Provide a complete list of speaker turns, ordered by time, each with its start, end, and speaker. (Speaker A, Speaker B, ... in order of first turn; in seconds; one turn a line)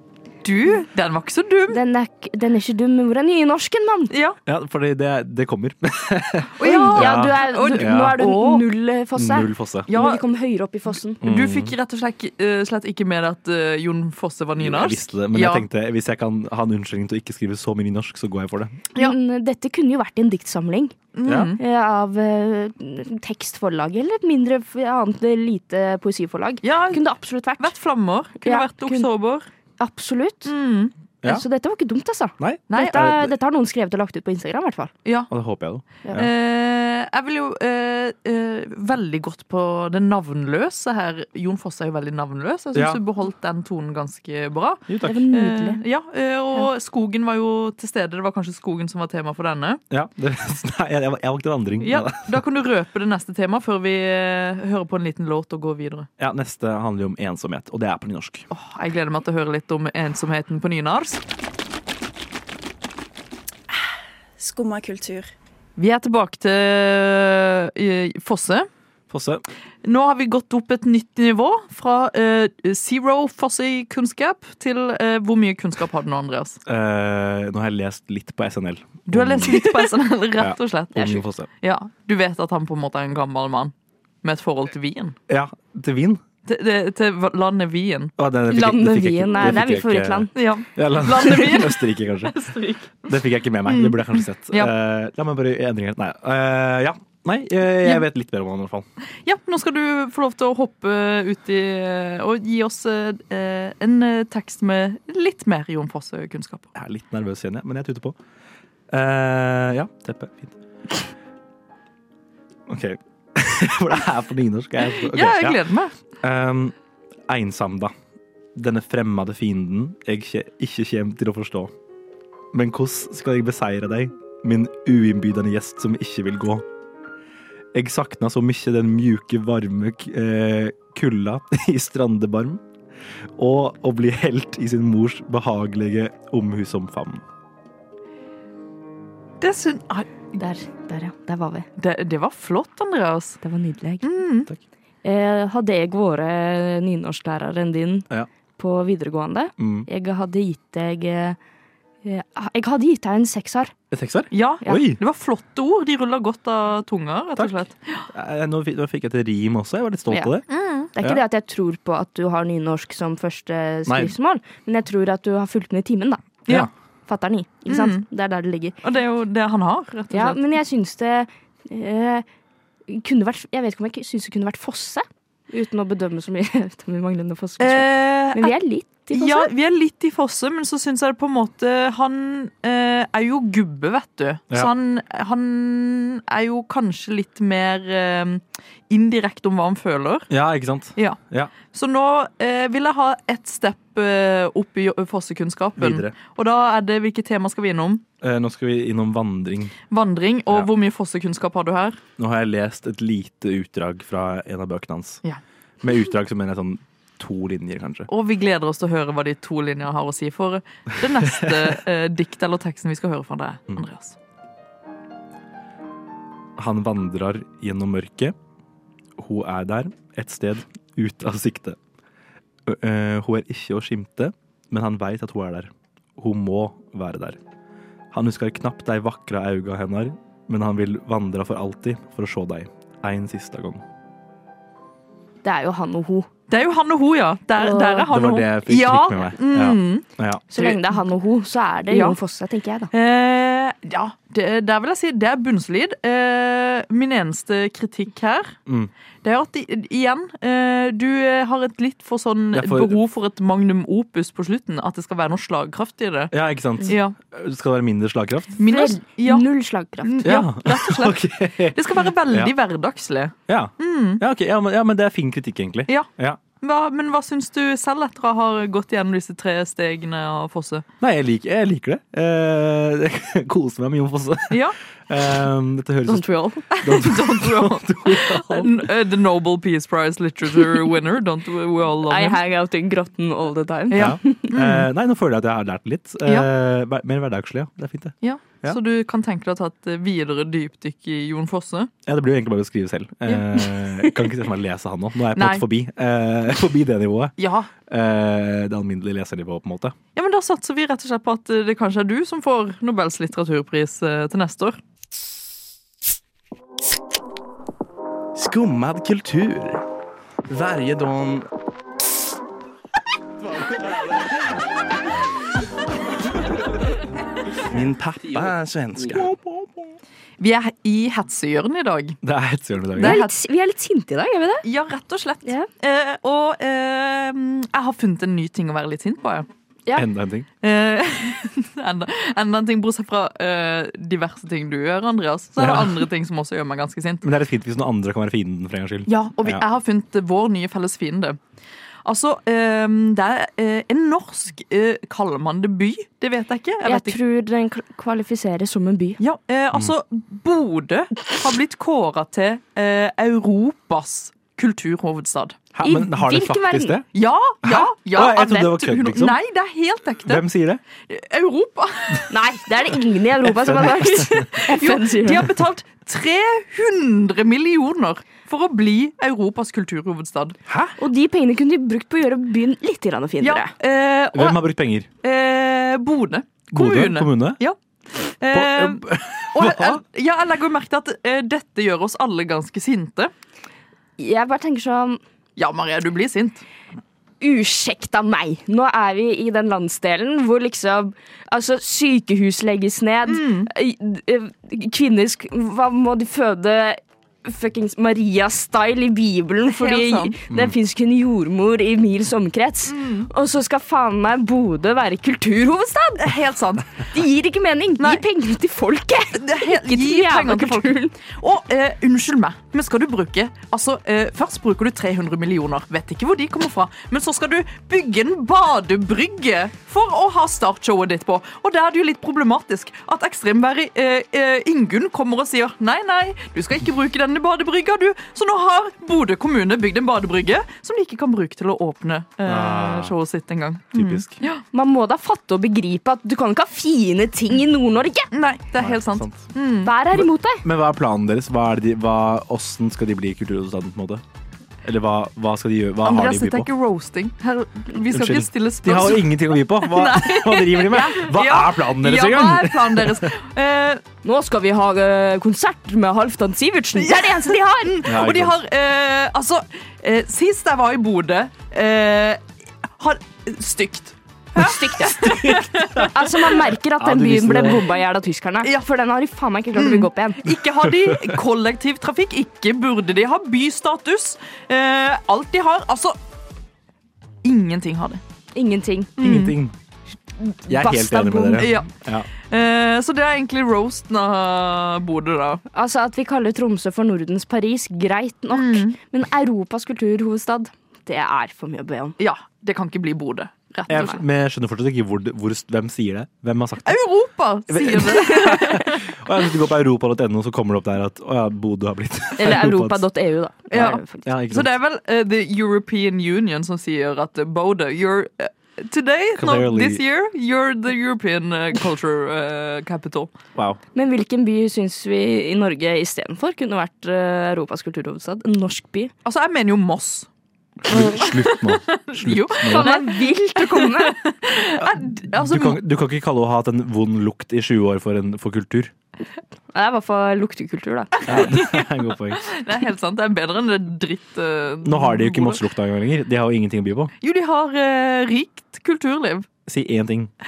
Speaker A: 0.4-1.8
Speaker B: 1.7-4.1
Speaker A: 4.1-4.4
Speaker C: 4.5-8.2
Speaker A: 6.6-8.6
Speaker B: 6.6-11.2
Speaker C: 9.1-9.9
Speaker A: 9.9-10.2
Speaker A: 11.2-15.7
Speaker C: 11.2-11.7
Speaker C: 14.6-18.8
Speaker B: 18.9-20.9
Speaker A: 21.1-21.6
Speaker C: 21.2-21.5
Speaker B: 21.6-27.7
Speaker A: 26.6-27.1
Speaker A: 27.6-29.5
Speaker B: 28.4-29.1
Speaker B: 29.8-30.5
Speaker A: 30.4-30.9
Speaker B: 31.2-34.9
Speaker C: 32.4-33.3
Speaker A: 32.7-33.0
Speaker A: 35.0-35.3
Speaker C: 35.3-36.3
Speaker A: 36.1-49.8
Speaker C: 42.7-43.0
Speaker C: 44.9-45.2
Speaker B: 45.0-45.8
Speaker C: 49.9-52.4
Speaker A: 51.8-56.1
Speaker C: 56.2-58.5
Speaker A: 58.5-61.2
Speaker A: 65.8-68.7
Speaker C: 69.1-69.4
Speaker A: 69.8-76.6
Speaker C: 76.7-79.6
Speaker A: 79.1-85.2
Speaker C: 80.4-81.5
Speaker C: 85.3-86.2
Speaker A: 86.5-88.1
Speaker C: 88.2-92.3
Speaker B: 88.5-90.3
Speaker A: 90.3-93.1
Speaker C: 93.0-98.9
Speaker A: 93.7-94.7
Speaker A: 99.2-106.7
Speaker C: 106.7-108.2
Speaker C: 108.9-110.5
Speaker C: 112.7-115.6
Speaker A: 114.9-115.9
Speaker C: 116.2-116.7
Speaker C: 117.3-117.9
Speaker C: 118.5-121.7
Speaker C: 122.5-126.6
Speaker C: 127.7-132.6
Speaker C: 133.4-137.2
Speaker A: 139.4-140.1
Speaker B: 140.3-141.7
Speaker A: 141.8-143.4
Speaker B: 143.4-144.1
Speaker A: 144.0-144.5
Speaker B: 145.0-148.1
Speaker B: 148.6-151.4
Speaker C: 149.6-149.9
Speaker B: 152.0-153.7
Speaker C: 153.9-155.0
Speaker A: 154.3-158.1
Speaker C: 158.1-160.4
Speaker B: 160.1-160.4
Speaker A: 160.5-160.9
Speaker B: 160.9-166.4
Speaker C: 161.0-161.2
Speaker C: 163.8-164.1
Speaker B: 167.1-168.7
Speaker A: 167.7-168.0
Speaker A: 168.8-170.4
Speaker B: 170.1-172.2
Speaker B: 172.9-179.5
Speaker A: 177.6-178.6
Speaker A: 179.1-190.3
Speaker C: 190.3-191.5
Speaker A: 191.7-198.0
Speaker C: 195.8-196.1
Speaker C: 198.2-199.7
Speaker A: 199.9-202.0
Speaker C: 202.2-205.2
Speaker C: 205.8-208.1
Speaker A: 208.1-214.2
Speaker C: 211.3-211.7
Speaker C: 216.6-218.3
Speaker C: 219.2-221.8
Speaker C: 222.7-227.4
Speaker C: 228.1-233.8
Speaker B: 235.4-236.3
Speaker A: 236.5-241.0
Speaker B: 237.6-238.1
Speaker C: 238.1-240.4
Speaker B: 240.5-242.9
Speaker A: 241.9-242.2
Speaker A: 242.9-248.5
Speaker A: 249.2-257.1
Speaker C: 252.5-253.0
Speaker C: 256.3-258.6
Speaker A: 258.6-259.5
Speaker B: 258.6-260.3
Speaker A: 260.0-264.2
Speaker C: 260.2-262.5
Speaker C: 263.5-266.4
Speaker A: 266.6-270.8
Speaker C: 271.0-278.9
Speaker A: 274.5-274.8
Speaker B: 276.1-276.6
Speaker A: 276.7-282.4
Speaker B: 282.1-284.5
Speaker A: 283.9-284.9
Speaker C: 283.9-288.8
Speaker A: 286.2-286.5
Speaker A: 288.2-291.9
Speaker C: 292.1-297.3
Speaker A: 295.3-295.6
Speaker A: 297.4-297.7
Speaker C: 297.9-299.9
Speaker A: 300.1-304.8
Speaker D: 308.4-309.8
Speaker D: 310.5-311.4
Speaker D: 317.7-319.3
Speaker C: 319.2-319.5
Speaker A: 320.4-322.2
Speaker C: 322.2-323.2
Speaker A: 322.9-323.3
Speaker B: 323.0-324.6
Speaker A: 324.6-329.5
Speaker C: 329.9-330.5
Speaker A: 330.6-337.2
Speaker C: 335.6-336.1
Speaker C: 337.2-339.6
Speaker A: 339.1-341.4
Speaker A: 342.0-347.2
Speaker B: 346.8-349.2
Speaker A: 349.2-355.6
Speaker C: 355.7-357.1
Speaker B: 355.8-357.0
Speaker A: 357.1-360.4
Speaker C: 357.6-359.4
Speaker C: 360.2-360.8
Speaker A: 361.1-362.4
Speaker B: 362.3-365.5
Speaker C: 363.5-364.5
Speaker A: 364.5-370.6
Speaker C: 370.7-370.9
Speaker B: 371.0-373.7
Speaker A: 373.4-374.7
Speaker C: 374.3-375.1
Speaker A: 375.2-377.8
Speaker C: 376.7-377.6
Speaker A: 378.4-383.3
Speaker C: 378.5-380.0
Speaker B: 384.2-385.2
Speaker A: 385.6-386.6
Speaker B: 387.4-406.2
Speaker A: 393.3-393.7
Speaker A: 399.7-400.4
Speaker C: 400.5-400.8
Speaker A: 402.9-403.3
Speaker A: 406.2-407.1
Speaker B: 407.1-411.1
Speaker A: 409.3-434.6
Speaker C: 432.4-433.1
Speaker C: 433.9-434.4
Speaker B: 434.7-438.3
Speaker A: 438.3-439.9
Speaker C: 438.8-439.5
Speaker B: 439.8-440.6
Speaker C: 440.1-444.2
Speaker C: 444.8-446.7
Speaker A: 446.0-454.0
Speaker C: 448.1-453.3
Speaker B: 454.2-458.0
Speaker A: 456.9-462.4
Speaker C: 458.0-458.6
Speaker A: 463.0-466.6
Speaker B: 464.5-470.5
Speaker C: 467.0-467.9
Speaker A: 469.7-476.1
Speaker C: 470.8-471.4
Speaker A: 477.4-478.2
Speaker B: 478.5-479.1
Speaker A: 479.2-479.6
Speaker C: 479.2-479.7
Speaker B: 480.4-481.7
Speaker C: 480.7-482.3
Speaker A: 481.6-485.6
Speaker B: 485.7-492.1
Speaker A: 488.5-489.0
Speaker A: 492.2-494.2
Speaker B: 493.9-494.2
Speaker C: 493.9-497.0
Speaker A: 496.8-499.1
Speaker C: 497.7-503.0
Speaker B: 502.4-504.2
Speaker A: 503.7-513.3
Speaker C: 503.7-504.7
Speaker C: 509.4-510.0
Speaker B: 513.9-519.1
Speaker A: 519.2-520.3
Speaker C: 520.9-522.9
Speaker A: 520.9-525.8
Speaker B: 522.6-524.2
Speaker C: 524.8-528.9
Speaker B: 529.7-531.5
Speaker A: 531.2-531.8
Speaker C: 531.3-532.4
Speaker A: 532.4-535.6
Speaker C: 534.8-537.1
Speaker A: 537.2-539.5
Speaker C: 539.7-540.3